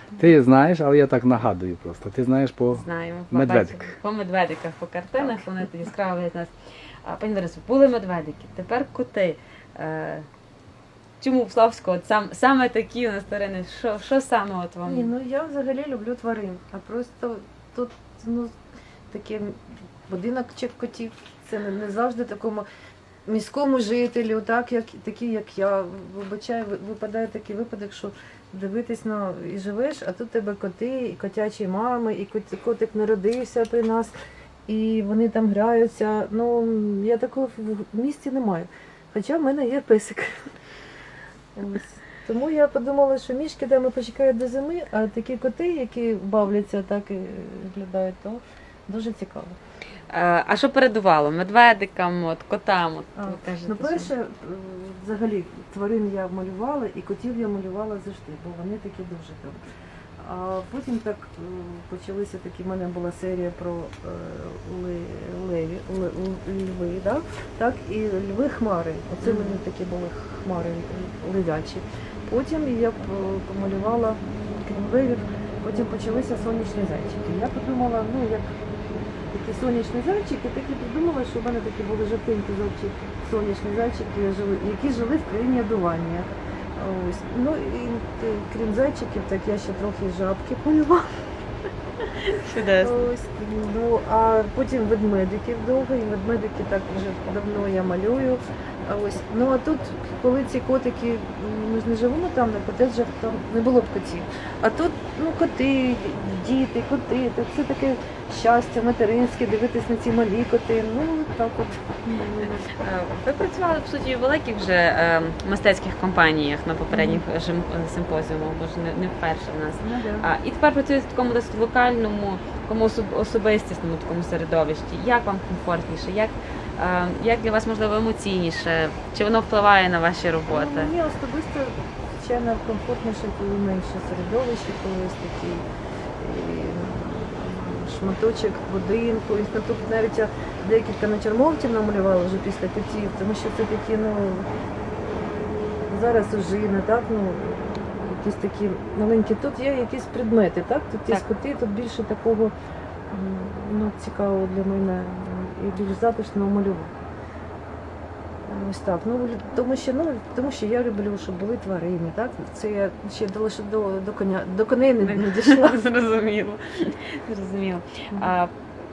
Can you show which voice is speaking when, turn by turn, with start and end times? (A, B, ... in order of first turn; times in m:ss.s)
0:00.2-0:03.9 A
0:02.7-0:06.5 B
0:07.0-0:10.3 B
0:11.2-0:15.1 B
0:14.8-0:18.5 C
0:19.1-0:22.7 C
0:23.3-0:34.2 C
0:34.7-0:40.4 C
0:41.6-0:49.6 C
0:50.1-0:54.1 B
0:53.2-0:59.6 C
1:00.2-1:31.0 C
1:09.2-1:09.6 B
1:32.3-1:33.0 B
1:32.8-1:52.7 C
1:52.7-2:10.9 B
1:56.9-1:57.3 C
1:59.8-2:00.3 C
2:10.5-2:15.6 C
2:16.2-2:24.5 C
2:25.9-2:32.5 C
2:33.1-2:36.9 C
2:38.5-2:45.8 C
2:45.0-2:48.5 B